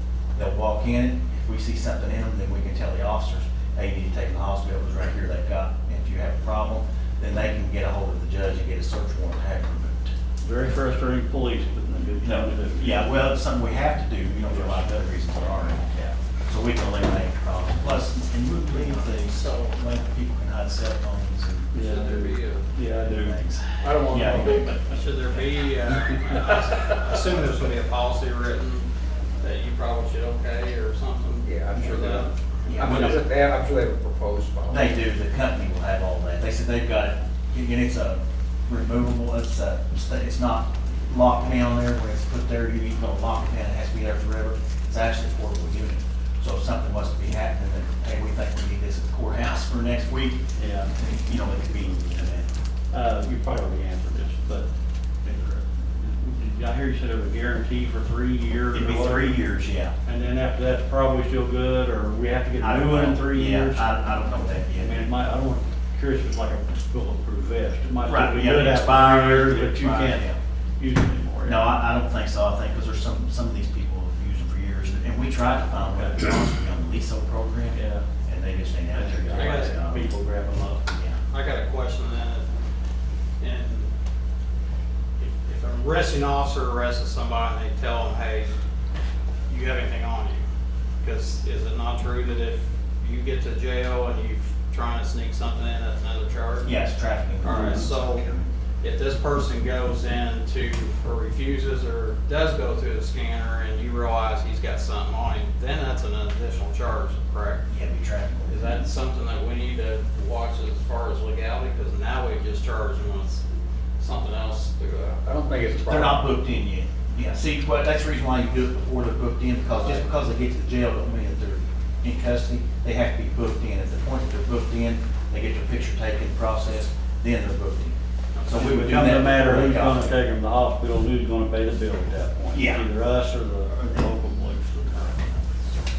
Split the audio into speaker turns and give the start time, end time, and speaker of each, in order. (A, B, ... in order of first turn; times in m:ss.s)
0:00.4-0:10.1 A
0:10.4-0:13.1 B
0:12.2-0:15.9 A
0:14.5-0:14.8 B
0:15.9-0:16.2 B
0:16.5-0:21.7 A
0:19.2-0:19.7 C
0:21.7-0:23.3 B
0:21.8-0:22.7 C
0:23.0-0:25.5 A
0:23.8-0:24.7 D
0:24.1-0:24.6 B
0:24.9-0:28.9 C
0:29.4-0:32.3 C
0:31.4-0:34.9 D
0:32.7-0:33.2 A
0:34.7-0:50.4 A
0:50.6-0:50.9 B
0:50.9-0:52.5 A
0:52.9-0:54.7 B
0:55.2-0:55.6 A
0:56.0-0:59.4 B
0:58.7-1:00.0 A
1:00.1-1:03.9 B
1:02.6-1:05.0 A
1:04.8-1:11.6 B
1:08.0-1:10.4 A
1:11.4-1:20.2 A
1:15.8-1:16.3 B
1:17.7-1:18.1 B
1:18.9-1:20.9 B
1:19.3-1:19.8 C
1:20.9-1:21.2 A
1:21.3-1:22.5 C
1:23.4-1:23.9 C
1:25.2-1:28.5 C
1:29.5-1:30.4 C
1:31.0-1:36.7 C
1:36.6-1:38.5 A
1:37.4-1:38.2 C
1:37.5-1:37.9 B
1:38.8-1:47.6 C
1:47.7-1:48.8 A
1:48.5-1:53.4 C
1:54.0-1:55.3 C
1:55.2-1:56.2 D
1:55.8-2:10.2 A
2:08.3-2:08.6 C
2:08.5-2:15.2 B
2:12.5-2:12.9 A
2:13.7-2:14.1 A
2:15.1-2:15.5 A